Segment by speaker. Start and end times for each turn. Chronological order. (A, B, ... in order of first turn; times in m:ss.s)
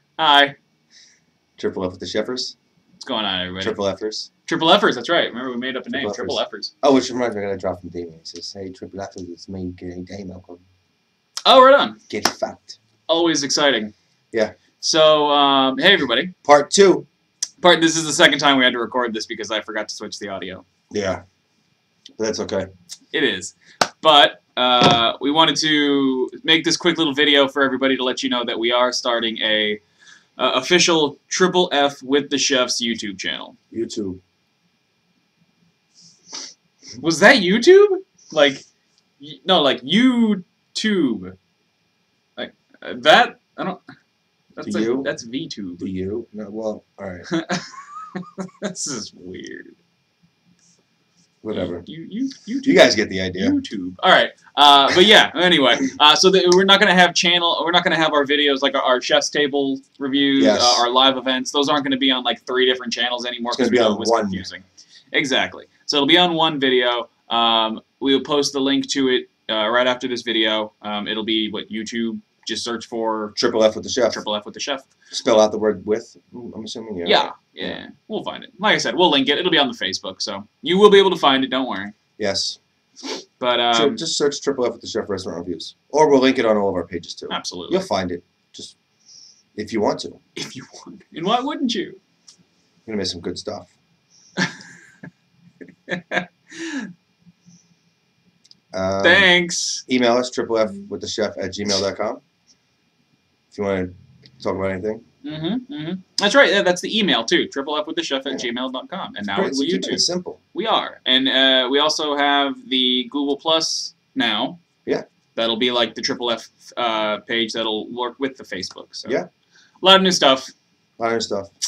0:00.2-0:00.5 A
0:01.6-0:02.5 B
0:03.0-0:03.8 A
0:03.6-0:04.3 B
0:04.4-0:06.7 A
0:05.9-0:10.6 B
0:11.4-0:12.0 A
0:12.1-0:12.8 B
0:13.1-0:13.9 A
0:14.8-0:16.3 A
0:16.4-0:17.1 B
0:17.6-0:20.6 A
0:20.9-0:21.2 B
0:22.2-0:22.7 B
0:23.1-0:29.8 A
0:30.4-0:33.6 A
0:33.7-0:34.2 B
0:37.0-0:38.6 A
0:39.2-0:41.4 A
0:42.4-0:43.8 A
0:44.6-0:45.9 A
0:44.6-0:45.1 B
0:45.8-0:47.3 B
0:47.3-0:49.8 A
0:51.4-0:51.8 B
0:51.5-1:13.3 A
0:52.6-0:53.6 B
1:00.4-1:00.8 B
1:03.5-1:04.4 B
1:13.4-1:14.2 B
1:14.1-1:14.8 A
1:15.1-1:17.8 B
1:17.0-1:21.9 A
1:22.2-1:22.6 B
1:23.4-1:24.0 A
1:23.7-1:28.8 B
1:27.3-1:27.8 A
1:29.5-1:30.2 B
1:30.4-1:32.0 A
1:32.8-1:33.7 B
1:35.9-1:36.9 A
1:38.7-1:39.3 B
1:39.0-1:39.8 A
1:39.9-1:42.2 B
1:43.5-1:45.0 B
1:45.2-1:54.6 A
1:49.3-1:50.4 B
1:55.3-1:59.2 A
1:59.8-2:00.5 A
2:01.0-2:01.5 B